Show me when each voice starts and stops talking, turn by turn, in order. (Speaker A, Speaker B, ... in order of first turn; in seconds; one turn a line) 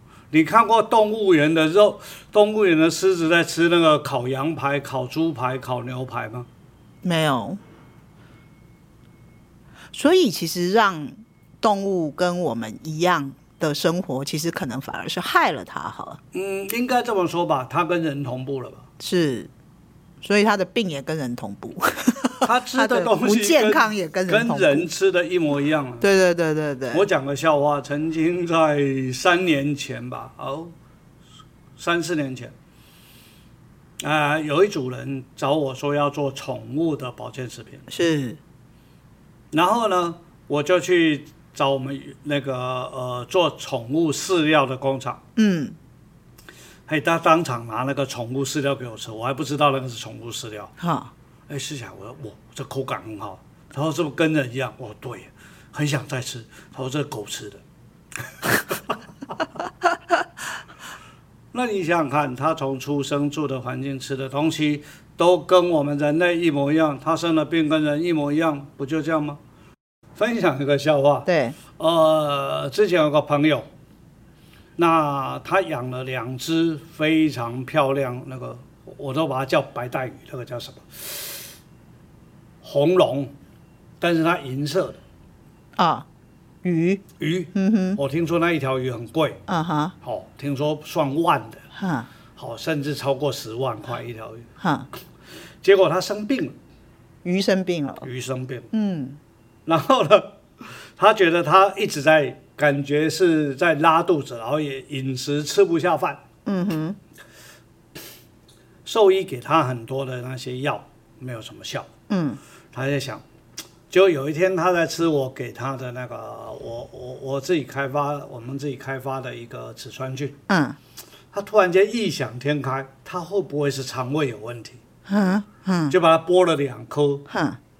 Speaker A: 0.3-6.5
Speaker B: 7.0-7.6
Speaker B: 9.9-16.2
Speaker A: 16.3-18.8
Speaker B: 19.0-19.5
Speaker B: 20.2-24.9
Speaker A: 22.4-26.1
Speaker B: 26.0-27.1
Speaker A: 26.9-30.7
Speaker A: 31.8-32.5
Speaker A: 34.0-37.9
Speaker B: 37.9-38.4
Speaker A: 39.5-45.2
Speaker B: 45.4-45.8
Speaker A: 46.9-50.7
Speaker B: 50.8-51.1
Speaker A: 51.5-57.6
Speaker A: 61.5-69.4
Speaker A: 70.2-73.7
Speaker B: 71.2-71.6
Speaker A: 74.8-81.4
Speaker A: 82.6-83.3
Speaker A: 84.0-85.0
Speaker B: 85.8-86.0
Speaker B: 86.6-87.0
Speaker A: 87.2-89.4
Speaker B: 87.5-88.0
Speaker B: 89.5-89.9
Speaker A: 90.0-91.6
Speaker B: 91.7-92.1
Speaker A: 92.3-94.5
Speaker B: 94.6-94.9
Speaker A: 95.6-96.5
Speaker B: 97.2-98.0
Speaker A: 98.0-98.7
Speaker B: 98.7-99.2
Speaker A: 99.7-106.2
Speaker B: 106.5-107.0
Speaker A: 108.8-111.9
Speaker B: 112.1-112.4
Speaker A: 112.7-113.2
Speaker A: 113.9-120.4
Speaker B: 120.5-120.8
Speaker A: 121.3-124.8
Speaker B: 125.1-126.0
Speaker A: 125.9-127.2
Speaker B: 127.3-127.6